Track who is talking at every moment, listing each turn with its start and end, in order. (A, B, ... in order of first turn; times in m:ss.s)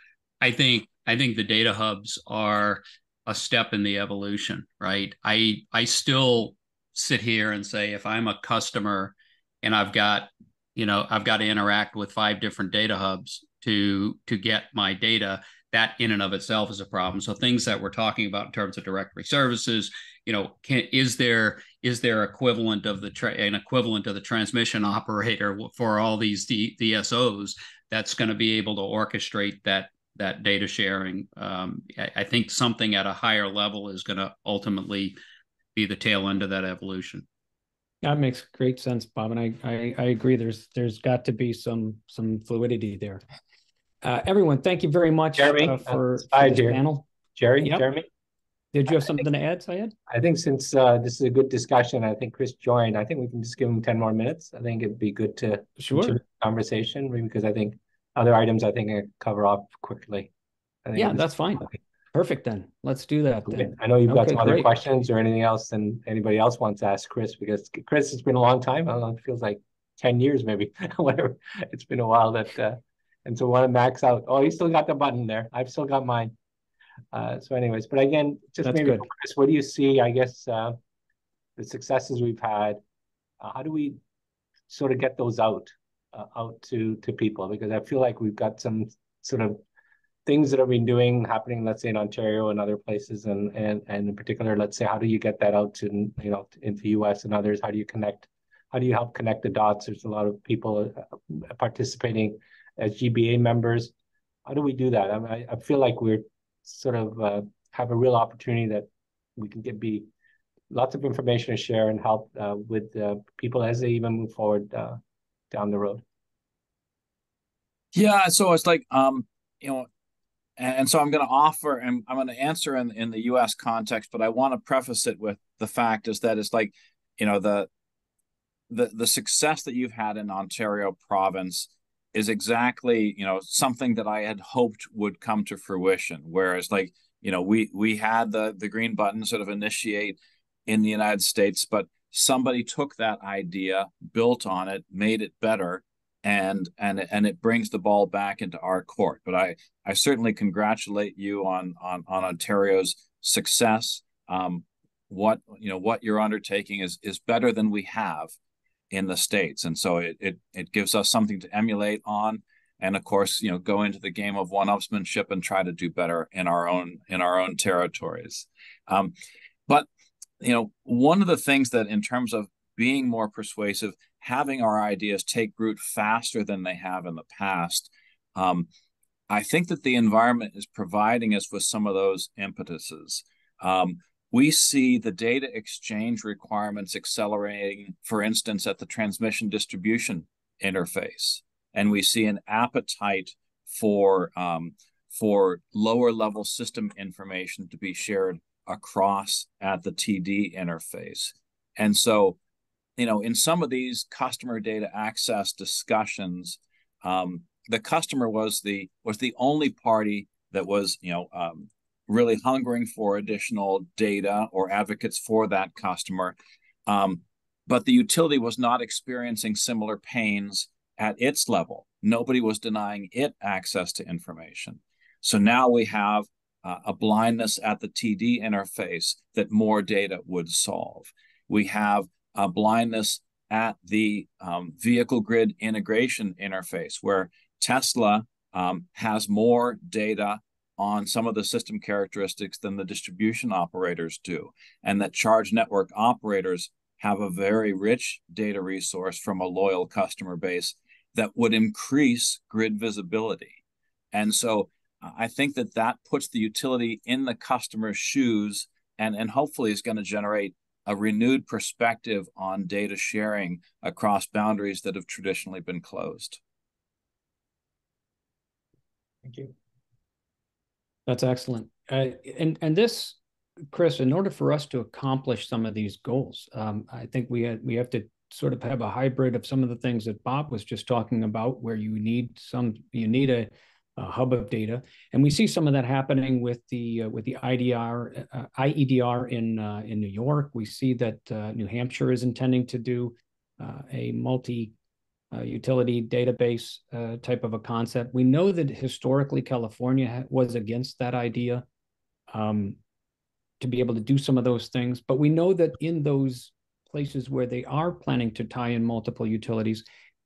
0:00.4-0:35.2 A
0:35.8-0:37.2 A
0:38.0-0:43.2 B
0:44.0-0:47.1 B
0:45.4-0:46.8 C
0:47.3-0:48.1 C
0:47.6-0:47.8 B
0:48.7-0:49.9 B
0:50.1-1:00.3 C
0:55.8-0:56.2 B
1:00.8-1:01.8 C
1:01.0-1:04.7 B
1:03.5-1:16.3 C
1:17.1-1:20.8 C
1:18.6-1:19.1 B
1:21.6-1:22.8 C
1:23.4-1:24.0 C
1:24.7-1:29.6 C
1:30.3-1:43.9 C
1:44.5-1:50.1 C
1:50.7-1:55.0 C
1:55.5-1:56.0 C
1:57.9-1:59.9 D
2:00.6-2:07.7 D
2:08.7-2:38.3 D
2:38.9-2:49.1 D
2:50.4-2:58.7 D
2:59.3-3:22.4 D
3:23.0-4:13.6 D
4:14.1-4:26.4 D
4:29.2-4:29.5 C
4:31.1-4:33.2 B
4:33.7-4:54.7 B
4:55.3-5:01.6 B
5:02.3-5:02.8 B
5:03.6-5:09.8 B